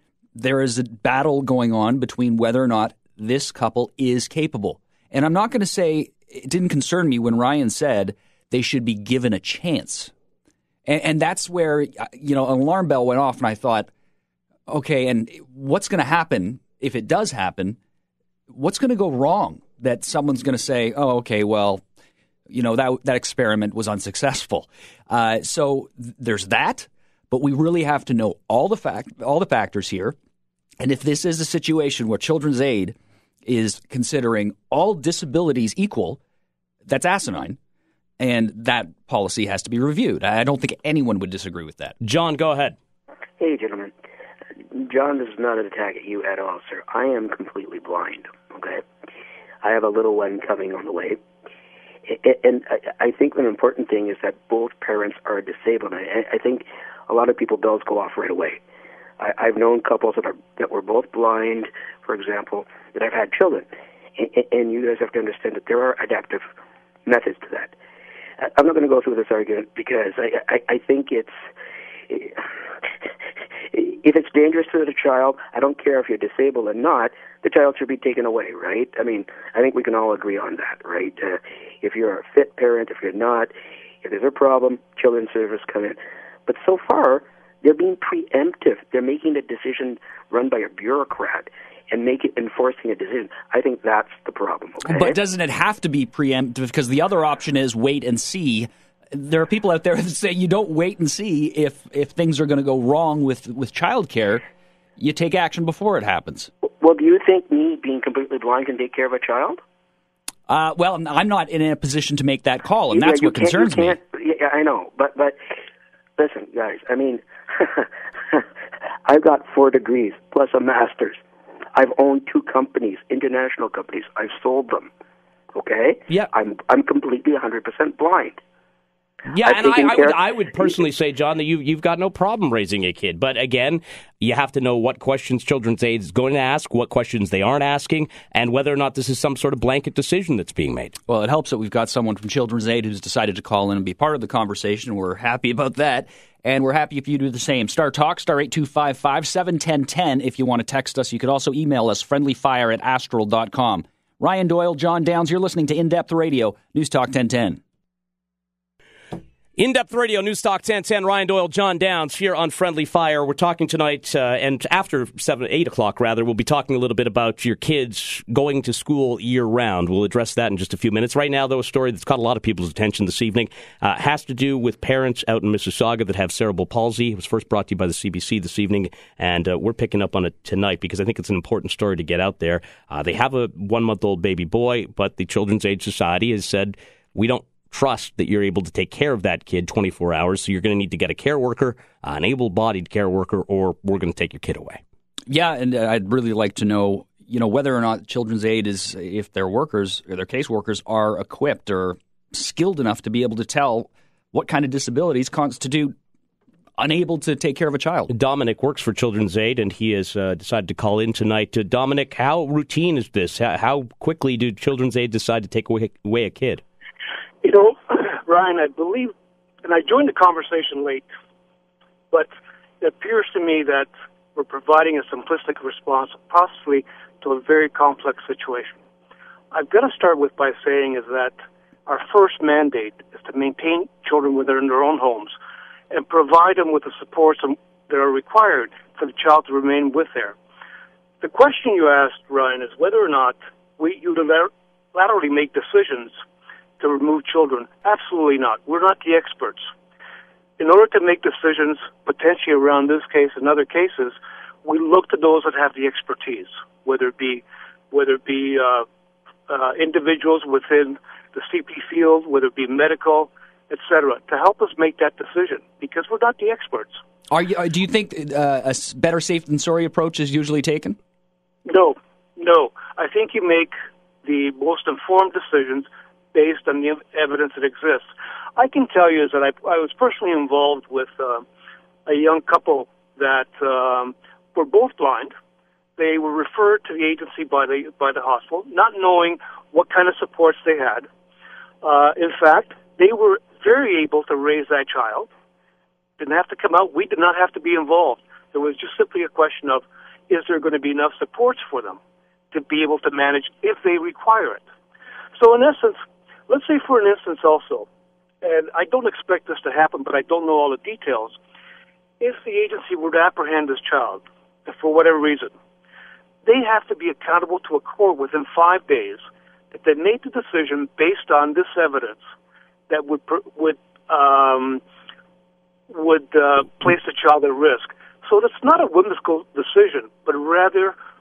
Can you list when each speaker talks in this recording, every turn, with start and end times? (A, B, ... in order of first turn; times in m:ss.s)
0:00.3-0:10.1 A
0:10.8-0:13.9 A
0:14.7-0:17.8 A
0:18.5-0:21.8 A
0:22.5-0:30.1 A
0:30.8-0:36.2 A
0:36.8-0:37.6 A
0:38.2-0:41.9 A
0:42.0-0:42.8 B
0:43.4-0:43.9 C
0:44.7-0:48.8 C
0:49.6-0:51.2 C
0:52.1-0:58.6 C
0:59.2-1:06.5 C
1:07.0-1:07.7 C
1:08.4-1:11.4 C
1:12.1-1:12.4 C
1:13.7-1:35.2 C
1:34.8-1:44.4 A
1:45.0-1:46.5 A
1:46.6-1:49.6 C
1:50.5-1:54.0 A
1:52.9-1:55.4 C
1:56.2-1:58.4 C
1:59.0-2:01.2 C
2:01.7-2:04.9 C
2:05.5-2:08.4 C
2:09.3-2:20.9 B
2:09.4-2:10.7 C
2:21.1-2:37.6 A
2:39.6-3:14.8 B
3:15.3-3:25.9 A
3:26.8-3:28.1 A
3:28.1-3:36.6 B
3:37.4-3:39.1 D
3:39.6-3:41.1 D
3:42.8-3:48.8 D
3:49.5-3:51.3 D
3:51.9-3:55.4 D
3:55.9-4:00.4 D
4:01.2-4:06.2 D
4:06.8-4:09.7 D
4:10.6-4:18.8 D
4:19.5-4:27.0 D
4:27.3-4:31.0 A
4:31.6-4:41.4 D
4:42.0-4:45.3 D
4:46.0-4:51.1 D
4:51.8-4:55.3 D
4:56.2-5:02.0 D
5:02.5-5:04.6 D
5:05.4-5:07.9 D
5:08.4-5:11.4 D
5:12.2-5:15.5 D
5:16.4-5:22.2 D
5:22.9-5:24.8 D
5:25.9-5:30.9 D